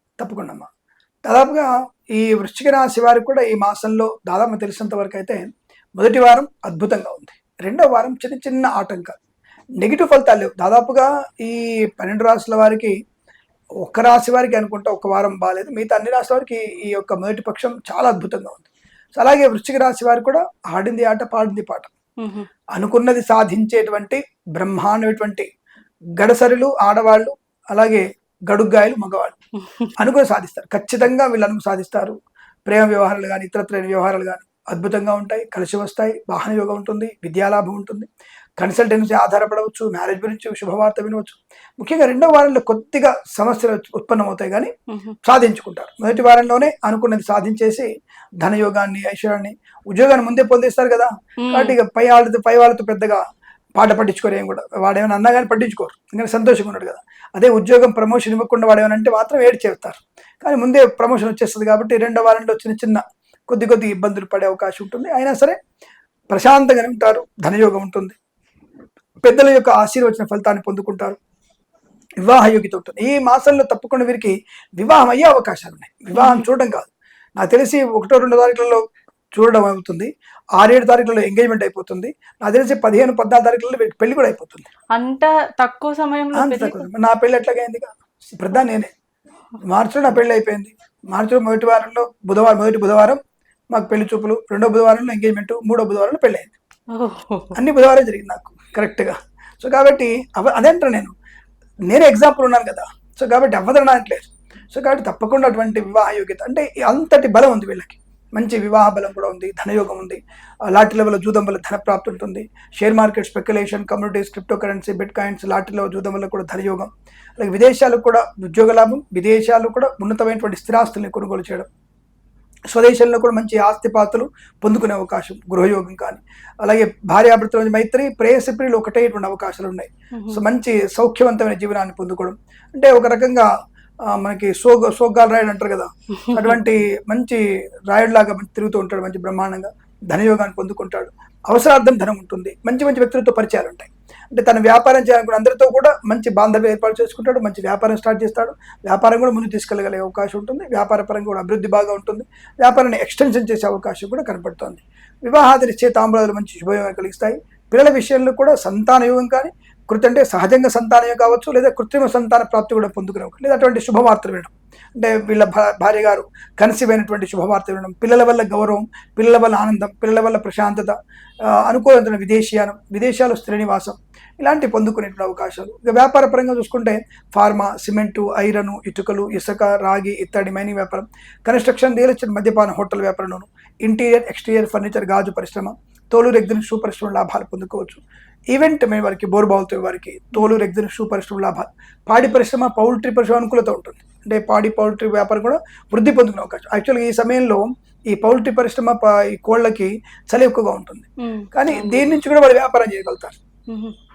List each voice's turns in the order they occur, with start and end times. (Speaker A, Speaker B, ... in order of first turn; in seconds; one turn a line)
Speaker A: 0.2-0.7
Speaker A: 1.3-5.4
Speaker A: 6.0-9.2
Speaker A: 9.8-12.9
Speaker A: 13.8-21.9
Speaker B: 22.2-22.5
Speaker A: 22.8-25.5
Speaker A: 26.2-29.4
Speaker A: 30.0-32.2
Speaker A: 32.7-38.1
Speaker A: 38.6-44.7
Speaker B: 44.9-45.2
Speaker A: 45.2-47.9
Speaker A: 48.4-53.2
Speaker B: 51.4-51.8
Speaker A: 53.8-65.6
Speaker A: 66.3-68.2
Speaker A: 69.2-71.2
Speaker A: 72.2-78.8
Speaker B: 76.2-76.5
Speaker A: 79.3-84.7
Speaker B: 85.0-86.9
Speaker A: 86.3-88.9
Speaker A: 89.7-93.2
Speaker A: 93.7-96.5
Speaker B: 96.9-97.5
Speaker A: 97.5-101.2
Speaker A: 101.9-121.7
Speaker A: 122.7-133.5
Speaker B: 130.2-130.4
Speaker A: 134.1-170.9
Speaker B: 136.2-136.6
Speaker A: 171.5-203.4
Speaker B: 201.2-202.2
Speaker B: 203.7-203.9